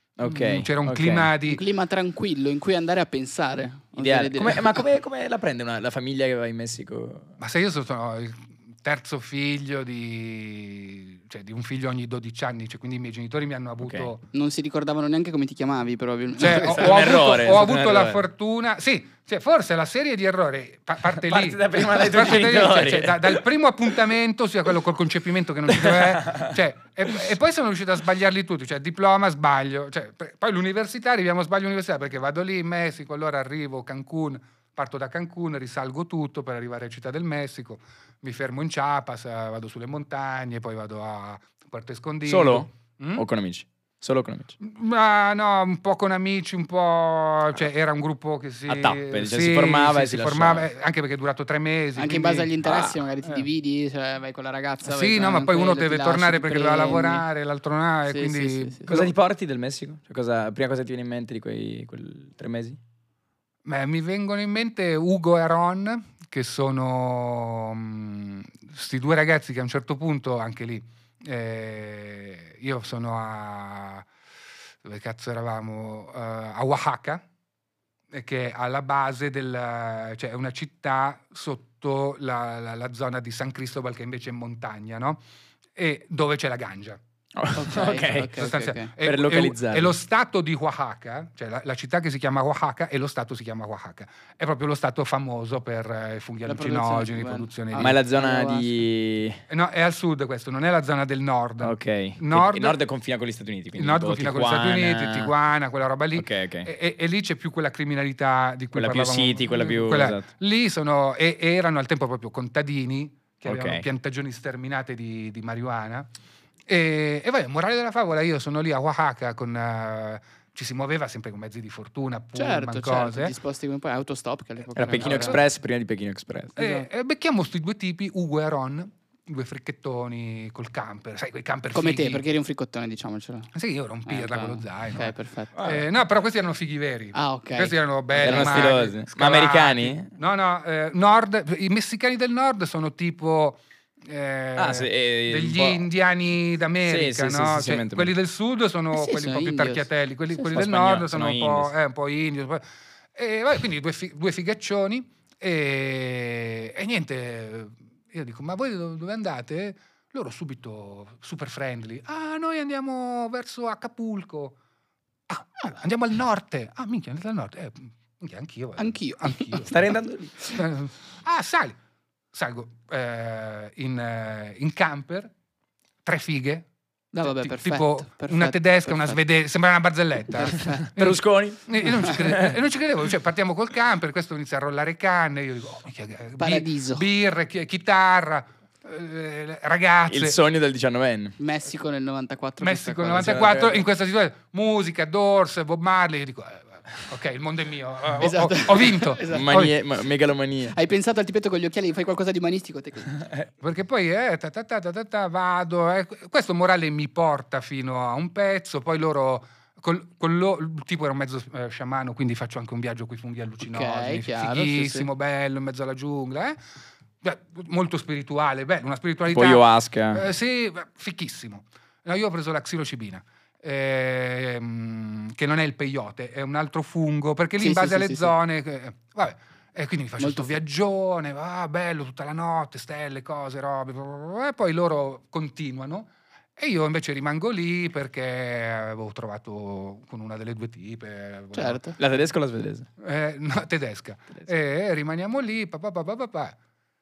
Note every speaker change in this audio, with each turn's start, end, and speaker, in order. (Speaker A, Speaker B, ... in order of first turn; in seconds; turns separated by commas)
Speaker A: 0.2-1.3, Speaker B: 0.2-1.6, Speaker C: 1.4-4.8, Speaker A: 4.0-7.3, Speaker B: 7.4-14.2, Speaker A: 13.8-14.1, Speaker C: 14.3-17.1, Speaker B: 16.4-43.2, Speaker A: 16.4-18.2, Speaker A: 21.1-23.4, Speaker A: 25.7-26.5, Speaker A: 42.2-44.5, Speaker B: 44.6-52.5, Speaker A: 48.7-50.7, Speaker C: 52.0-57.2, Speaker A: 52.6-53.0, Speaker B: 54.8-59.0, Speaker C: 58.1-59.1, Speaker A: 58.9-62.8, Speaker B: 63.6-74.0, Speaker B: 74.8-77.2, Speaker B: 78.1-85.2, Speaker B: 85.7-87.0, Speaker A: 87.3-89.9, Speaker C: 87.5-88.9, Speaker B: 88.4-97.9, Speaker C: 96.5-98.8, Speaker A: 97.8-99.4, Speaker B: 99.5-102.8, Speaker A: 101.6-105.3, Speaker B: 103.8-116.1, Speaker A: 106.1-106.7, Speaker A: 108.7-110.3, Speaker A: 113.4-113.8, Speaker B: 116.7-123.3, Speaker C: 122.3-125.4, Speaker A: 124.8-126.5, Speaker B: 124.9-125.4, Speaker B: 126.5-132.2, Speaker C: 126.6-126.8, Speaker C: 131.7-133.5, Speaker B: 133.5-152.6, Speaker C: 134.1-135.5, Speaker A: 135.5-135.8, Speaker C: 137.1-138.7, Speaker A: 138.2-140.1, Speaker A: 144.6-145.8, Speaker A: 146.8-148.1, Speaker C: 148.9-150.4, Speaker A: 150.5-151.7, Speaker B: 153.1-164.6, Speaker B: 165.3-169.7, Speaker C: 168.8-169.7, Speaker A: 169.6-170.4, Speaker B: 170.5-171.8, Speaker B: 172.3-175.3, Speaker B: 176.0-176.7, Speaker C: 177.1-179.2, Speaker B: 177.2-190.4, Speaker C: 180.3-180.9, Speaker A: 180.8-182.6, Speaker C: 186.4-187.1, Speaker A: 190.1-191.3, Speaker C: 191.4-193.6, Speaker B: 192.6-199.7, Speaker A: 193.2-193.8, Speaker C: 198.2-199.5, Speaker A: 199.3-200.7, Speaker C: 200.7-203.2, Speaker A: 203.2-203.5, Speaker B: 203.6-216.6, Speaker C: 213.6-215.1, Speaker B: 217.2-241.8, Speaker A: 219.3-220.2, Speaker C: 227.6-228.3, Speaker C: 230.2-230.5, Speaker C: 241.5-242.0, Speaker A: 242.0-242.9, Speaker B: 243.0-246.6